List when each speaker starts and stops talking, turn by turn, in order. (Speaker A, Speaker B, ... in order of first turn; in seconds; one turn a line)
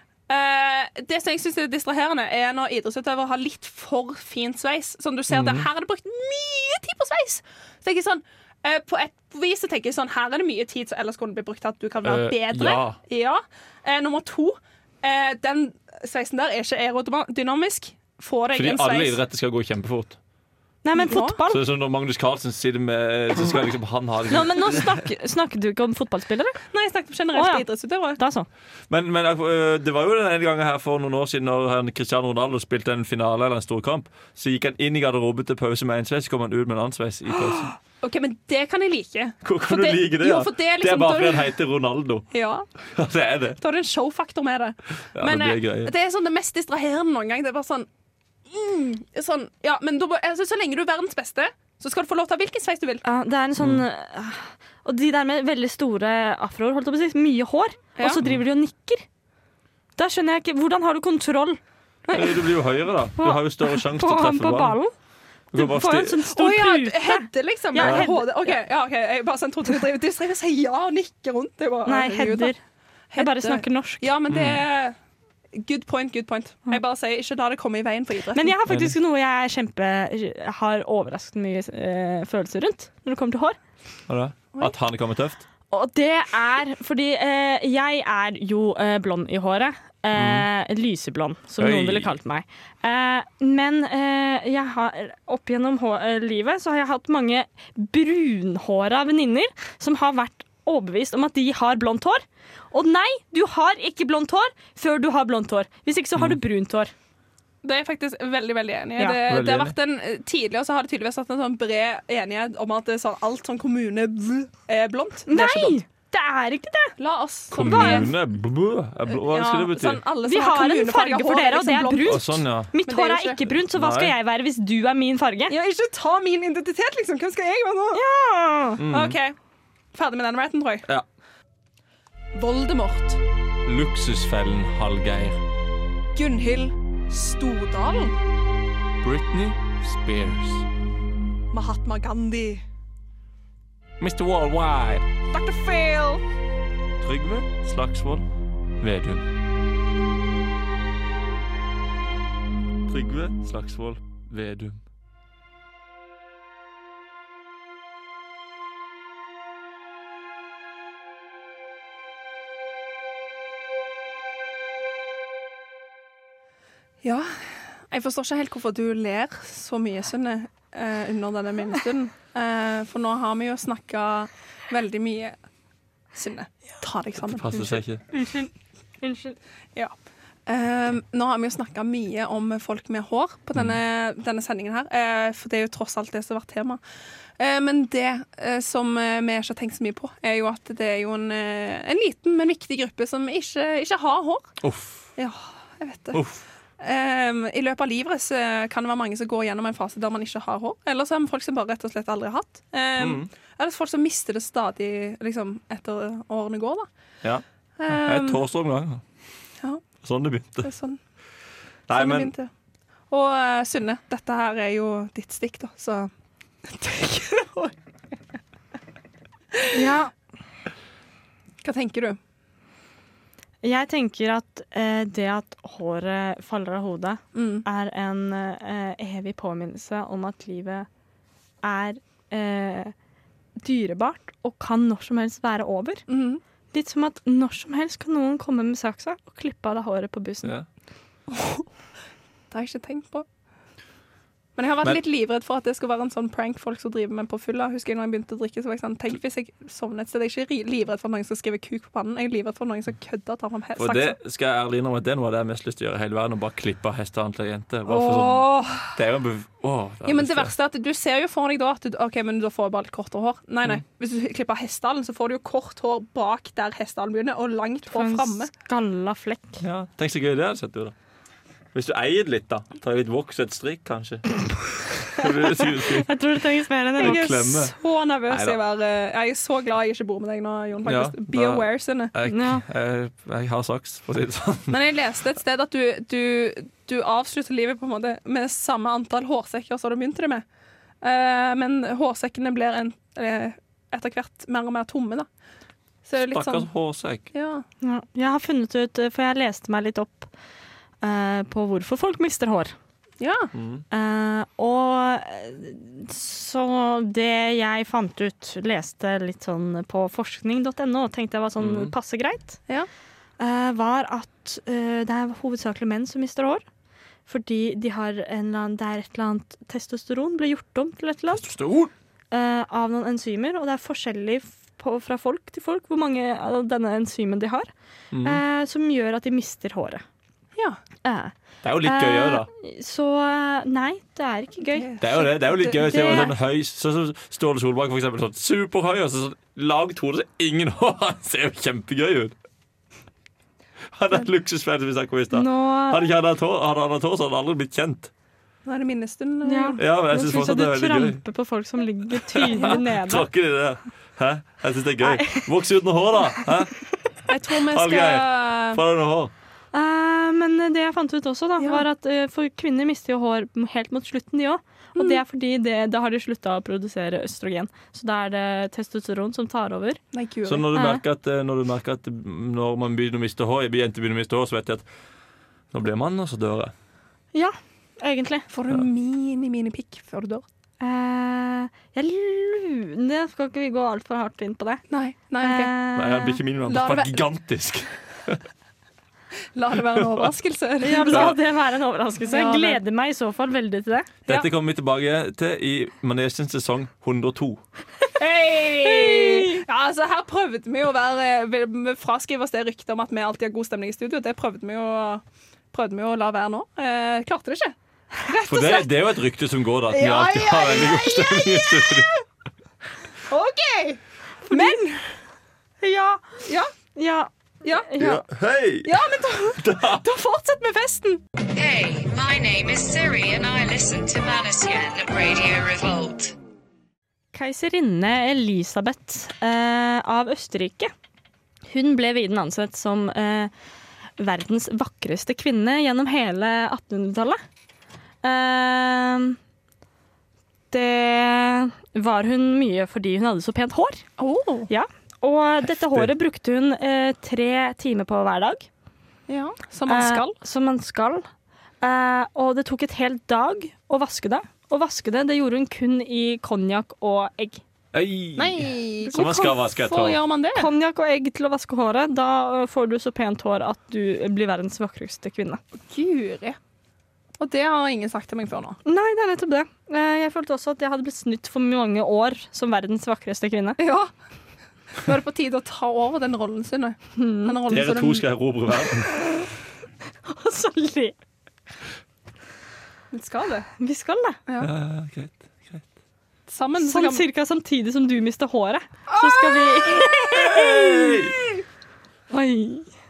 Speaker A: 0.3-19.2
Speaker B: 5.3-5.7
Speaker B: 12.0-13.0
Speaker B: 18.5-20.2
Speaker C: 20.8-21.6
Speaker A: 20.9-21.4
Speaker B: 21.5-24.9
Speaker C: 24.3-26.6
Speaker A: 26.7-28.2
Speaker C: 27.3-27.6
Speaker C: 28.2-28.5
Speaker B: 28.9-37.7
Speaker A: 38.0-41.5
Speaker B: 39.4-42.3
Speaker A: 42.3-42.6
Speaker B: 42.9-43.6
Speaker A: 43.6-47.9
Speaker B: 45.1-45.9
Speaker A: 48.5-53.0
Speaker C: 53.0-59.0
Speaker B: 53.6-53.8
Speaker C: 60.0-61.6
Speaker A: 62.0-62.5
Speaker B: 62.1-64.8
Speaker C: 63.2-64.9
Speaker B: 65.5-66.2
Speaker C: 65.5-68.6
Speaker A: 66.3-72.5
Speaker B: 67.8-68.0
Speaker C: 71.9-72.6
Speaker A: 73.1-75.0
Speaker C: 73.2-74.1
Speaker B: 74.3-74.6
Speaker A: 75.5-78.5
Speaker C: 78.3-83.6
Speaker B: 78.7-78.9
Speaker B: 84.1-85.4
Speaker C: 85.7-106.9
Speaker B: 90.1-90.5
Speaker B: 91.6-92.1
Speaker A: 107.6-115.8
Speaker B: 109.3-109.7
Speaker C: 115.3-116.9
Speaker A: 117.0-118.1
Speaker B: 117.5-120.0
Speaker C: 117.7-118.1
Speaker A: 119.0-123.5
Speaker C: 120.2-125.5
Speaker B: 122.0-122.7
Speaker B: 123.7-124.1
Speaker A: 125.5-128.0
Speaker C: 127.9-128.8
Speaker B: 128.8-129.2
Speaker A: 128.9-129.3
Speaker A: 129.9-130.9
Speaker A: 132.3-133.2
Speaker B: 133.7-135.4
Speaker A: 136.1-138.2
Speaker B: 139.0-140.7
Speaker A: 141.5-142.6
Speaker B: 144.0-145.1
Speaker A: 145.3-146.2
Speaker B: 147.0-148.2
Speaker B: 148.8-149.2
Speaker B: 152.9-154.8
Speaker A: 167.0-175.3
Speaker A: 176.1-177.8
Speaker B: 177.3-178.0
Speaker C: 178.1-178.5
Speaker C: 179.0-179.4
Speaker A: 180.5-186.8
Speaker A: 187.4-194.6
Speaker B: 194.6-195.0
Speaker A: 195.2-196.2
Speaker B: 196.1-196.4
Speaker A: 196.8-206.9
Speaker B: 203.0-203.3
Speaker B: 207.2-209.0
Speaker A: 207.8-208.4
Speaker B: 210.0-210.7
Speaker A: 210.6-211.0
Speaker B: 211.9-212.3
Speaker A: 211.9-212.5
Speaker A: 213.1-216.1
Speaker A: 216.7-217.7
Speaker A: 219.5-219.9
Speaker C: 219.7-220.1
Speaker A: 221.6-222.2
Speaker C: 223.6-230.9
Speaker A: 227.3-227.6
Speaker C: 231.6-232.9
Speaker C: 233.6-236.0
Speaker A: 236.1-236.4
Speaker C: 236.7-240.5
Speaker A: 241.4-241.6
Speaker A: 242.5-243.2
Speaker A: 244.6-254.2
Speaker B: 253.8-260.5
Speaker A: 257.9-258.9
Speaker A: 260.0-268.5
Speaker C: 267.9-269.6
Speaker B: 269.6-270.9
Speaker B: 271.7-276.1
Speaker C: 276.0-277.3
Speaker B: 277.0-277.7
Speaker A: 277.0-282.1
Speaker B: 278.3-278.6
Speaker B: 280.9-284.8
Speaker C: 282.3-282.6
Speaker A: 284.7-290.4
Speaker A: 291.0-295.3
Speaker A: 296.1-296.7
Speaker B: 296.2-297.2
Speaker A: 297.3-297.6
Speaker C: 297.8-300.3
Speaker C: 301.0-302.7
Speaker A: 303.2-303.5
Speaker B: 303.5-303.8
Speaker C: 303.9-312.6
Speaker B: 311.6-311.9
Speaker C: 313.4-316.6
Speaker C: 317.3-321.5
Speaker B: 321.3-321.9
Speaker C: 322.3-327.7
Speaker B: 328.1-328.4
Speaker C: 328.2-330.0
Speaker C: 331.0-334.9
Speaker B: 331.6-332.5
Speaker A: 334.7-336.3
Speaker B: 335.0-342.3
Speaker C: 335.8-336.3
Speaker B: 343.9-348.1
Speaker C: 345.3-346.1
Speaker A: 348.6-349.8
Speaker C: 349.4-353.2
Speaker B: 349.8-351.2
Speaker B: 352.2-356.8
Speaker C: 355.0-355.4
Speaker A: 357.3-358.8
Speaker B: 357.7-359.3
Speaker C: 359.7-370.0
Speaker A: 361.6-361.8
Speaker A: 364.9-365.2
Speaker A: 370.1-370.7
Speaker B: 370.4-374.9
Speaker C: 370.7-371.0
Speaker B: 375.7-376.7
Speaker C: 377.3-378.4
Speaker A: 378.5-380.4
Speaker C: 380.8-384.8
Speaker A: 384.9-385.7
Speaker C: 385.4-386.4
Speaker B: 385.9-388.4
Speaker A: 386.7-387.2
Speaker A: 389.5-391.4
Speaker C: 390.8-394.1
Speaker B: 391.1-391.4
Speaker A: 392.2-392.8
Speaker B: 394.3-397.6
Speaker A: 398.1-405.2
Speaker C: 398.8-399.6
Speaker A: 405.7-409.2
Speaker B: 408.4-412.1
Speaker A: 409.9-412.0
Speaker A: 413.3-415.1
Speaker C: 414.4-414.8
Speaker C: 415.8-416.2
Speaker A: 416.4-416.7
Speaker C: 416.9-417.3
Speaker A: 417.6-417.9
Speaker C: 417.9-418.2
Speaker B: 418.0-418.9
Speaker A: 418.9-421.2
Speaker B: 419.6-420.0
Speaker D: 421.5-426.4
Speaker C: 427.3-430.9
Speaker C: 431.7-433.5
Speaker C: 434.2-437.4
Speaker C: 438.2-439.4
Speaker C: 440.7-444.0
Speaker A: 444.2-444.7
Speaker C: 444.7-448.7
Speaker A: 449.3-450.4
Speaker C: 449.9-451.3
Speaker C: 451.8-457.6
Speaker B: 457.9-460.2
Speaker A: 458.4-460.7
Speaker C: 459.1-459.7
Speaker C: 460.5-465.6
Speaker A: 465.9-466.6
Speaker A: 467.4-468.8
Speaker C: 468.9-473.8
Speaker A: 473.8-474.1
Speaker A: 475.0-478.3
Speaker C: 477.2-477.6
Speaker B: 477.7-479.2
Speaker C: 480.2-481.1
Speaker A: 483.1-483.7
Speaker C: 483.8-484.4
Speaker A: 484.5-484.7
Speaker B: 484.6-485.8
Speaker A: 486.5-487.2
Speaker C: 486.8-490.8
Speaker A: 489.1-490.9
Speaker B: 490.2-491.4
Speaker C: 492.3-492.9